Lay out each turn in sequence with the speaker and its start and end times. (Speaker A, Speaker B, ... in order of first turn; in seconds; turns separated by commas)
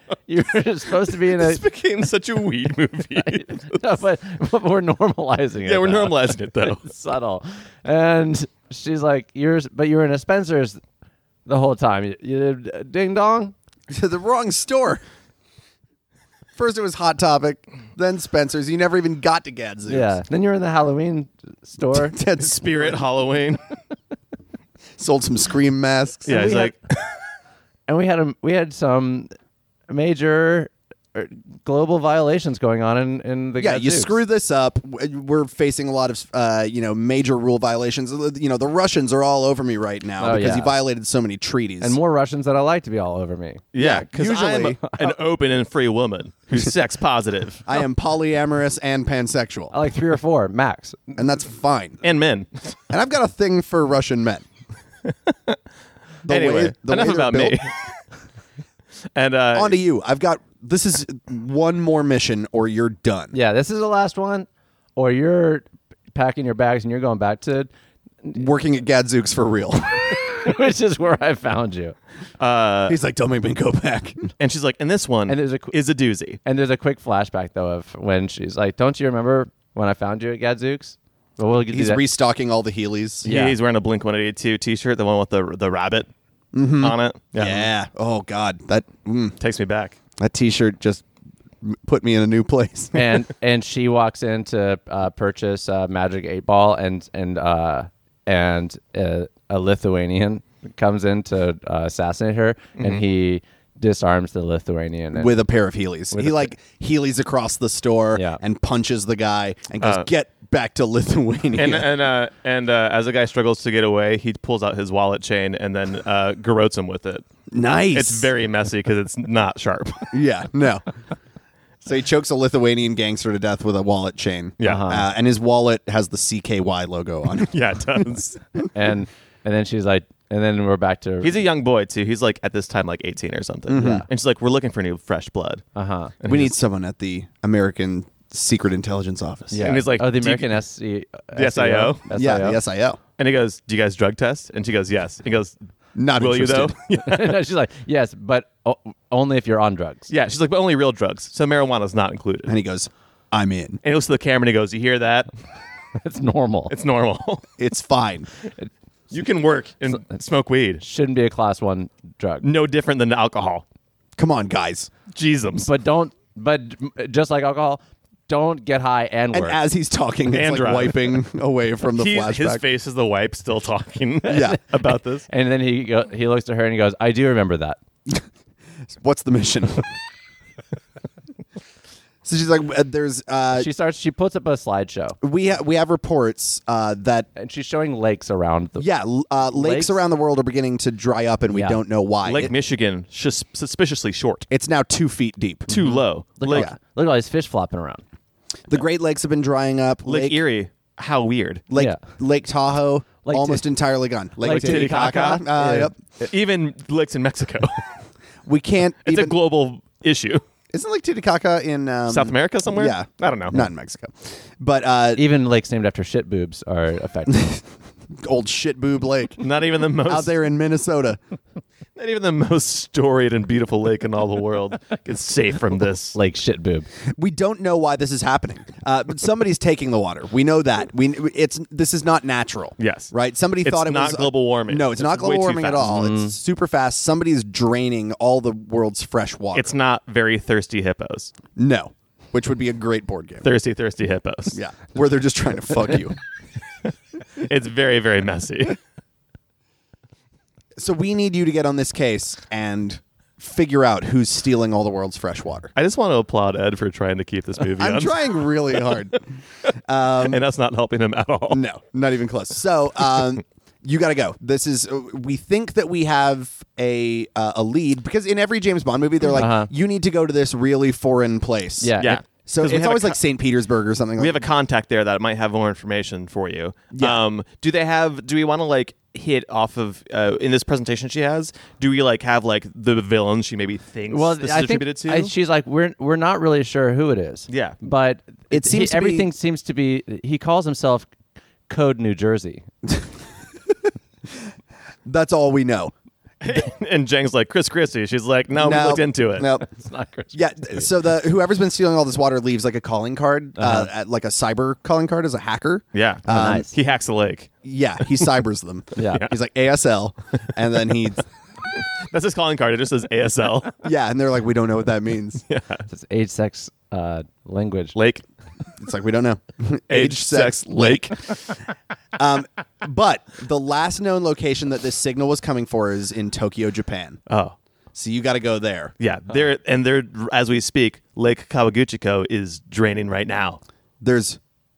Speaker A: 0.3-1.6, Speaker B: 1.3-3.9, Speaker A: 3.2-10.8, Speaker B: 5.6-6.8, Speaker A: 11.4-13.5, Speaker C: 13.9-15.0, Speaker C: 16.6-20.1, Speaker A: 19.9-22.2, Speaker C: 22.0-23.0, Speaker B: 22.3-23.6, Speaker C: 25.0-26.5, Speaker B: 26.2-27.1, Speaker A: 26.3-26.7, Speaker A: 27.9-29.3, Speaker A: 29.9-34.2, Speaker C: 33.6-42.0, Speaker A: 40.2-40.8, Speaker A: 41.8-43.6, Speaker B: 43.7-47.8, Speaker C: 43.8-44.8, Speaker A: 44.9-45.1, Speaker C: 47.6-49.7, Speaker A: 49.7-51.1, Speaker C: 51.2-52.0, Speaker B: 52.0-52.7, Speaker C: 52.9-54.5, Speaker B: 55.1-55.5, Speaker C: 56.2-57.6, Speaker B: 56.2-57.7, Speaker B: 59.1-59.8, Speaker C: 59.5-63.3, Speaker A: 63.3-67.7, Speaker C: 68.3-70.2, Speaker A: 70.3-72.0, Speaker B: 72.4-73.0, Speaker C: 72.9-74.3, Speaker B: 74.4-76.4, Speaker A: 75.3-75.7, Speaker A: 76.4-82.0, Speaker C: 81.7-83.3, Speaker A: 83.2-83.5, Speaker B: 83.2-86.1, Speaker C: 86.5-89.3, Speaker B: 86.8-87.7, Speaker B: 89.4-90.0, Speaker C: 90.2-91.0, Speaker C: 91.6-93.0, Speaker A: 92.9-105.4, Speaker C: 105.1-111.9, Speaker A: 106.1-106.5, Speaker A: 108.2-108.4, Speaker B: 109.8-110.1, Speaker B: 111.5-117.2, Speaker C: 117.5-118.3, Speaker B: 117.9-120.1, Speaker C: 120.1-120.8, Speaker C: 121.8-127.5, Speaker B: 124.6-125.0, Speaker A: 124.6-125.0, Speaker B: 127.4-128.4, Speaker A: 128.7-131.4, Speaker B: 131.2-135.6, Speaker C: 133.7-134.1, Speaker A: 135.7-136.1, Speaker B: 136.2-136.5, Speaker C: 136.2-139.8, Speaker A: 139.5-142.6, Speaker B: 139.6-140.6, Speaker B: 141.3-142.1, Speaker C: 142.1-143.0, Speaker B: 143.2-145.6, Speaker C: 145.9-146.7, Speaker B: 146.2-147.4, Speaker A: 147.0-150.1, Speaker B: 150.1-152.5, Speaker C: 152.5-153.8, Speaker B: 153.8-155.3, Speaker A: 156.0-156.7, Speaker B: 156.7-157.4, Speaker C: 157.6-158.3, Speaker B: 159.1-160.8, Speaker A: 160.8-162.4, Speaker B: 162.4-163.6, Speaker C: 164.2-164.9, Speaker B: 165.1-165.7, Speaker A: 165.6-169.6, Speaker C: 169.3-172.6, Speaker B: 170.3-171.2, Speaker B: 171.9-175.2, Speaker A: 174.3-174.6, Speaker C: 174.3-174.6, Speaker A: 175.3-177.8, Speaker C: 178.9-179.9, Speaker C: 182.2-183.7, Speaker A: 183.5-185.2, Speaker C: 185.2-187.3, Speaker A: 187.3-188.9, Speaker C: 188.8-192.5, Speaker A: 189.5-190.0, Speaker A: 191.5-191.8, Speaker B: 192.2-194.4, Speaker C: 194.5-195.7, Speaker B: 195.7-196.7, Speaker A: 195.7-198.0, Speaker C: 196.5-196.8, Speaker C: 198.7-200.4, Speaker B: 200.0-201.6, Speaker C: 201.7-205.9, Speaker A: 201.7-202.0, Speaker A: 203.2-203.6, Speaker A: 204.4-206.3, Speaker B: 204.4-205.4, Speaker B: 206.2-207.9, Speaker C: 208.4-209.3, Speaker B: 209.1-210.4, Speaker C: 210.7-215.2, Speaker B: 212.1-213.7, Speaker A: 215.2-217.5, Speaker C: 217.3-217.6, Speaker C: 218.2-219.4, Speaker B: 219.4-220.4, Speaker C: 220.0-221.2, Speaker B: 221.9-226.2, Speaker A: 226.1-226.9, Speaker C: 227.1-239.7, Speaker B: 232.8-233.1, Speaker B: 233.6-236.0, Speaker A: 235.8-236.3, Speaker B: 239.5-241.3, Speaker C: 241.6-243.5, Speaker B: 243.4-244.6, Speaker C: 244.5-246.2, Speaker B: 247.3-248.8, Speaker C: 250.8-255.7, Speaker B: 255.7-259.0, Speaker C: 257.8-259.2, Speaker C: 259.9-260.4, Speaker B: 260.2-261.6, Speaker C: 261.5-274.4, Speaker A: 269.3-269.7, Speaker A: 271.8-272.2, Speaker B: 272.0-273.2, Speaker B: 274.2-285.3, Speaker C: 276.9-277.2, Speaker A: 284.1-291.1, Speaker B: 287.5-287.8, Speaker C: 288.5-289.3, Speaker A: 291.7-292.6, Speaker C: 295.0-295.9, Speaker B: 296.4-299.5, Speaker C: 298.6-299.6, Speaker A: 299.6-300.9, Speaker C: 300.3-306.7, Speaker A: 303.6-303.9, Speaker B: 305.9-307.5, Speaker A: 306.3-306.7, Speaker C: 307.6-311.2, Speaker A: 308.9-309.2, Speaker B: 312.1-313.8, Speaker C: 313.8-315.4, Speaker B: 315.5-315.8, Speaker A: 315.9-317.9, Speaker B: 317.9-318.2, Speaker C: 318.8-321.3, Speaker B: 319.9-321.2, Speaker C: 322.1-327.2, Speaker B: 327.3-327.6, Speaker C: 327.9-328.9, Speaker B: 329.0-333.6, Speaker C: 334.0-334.4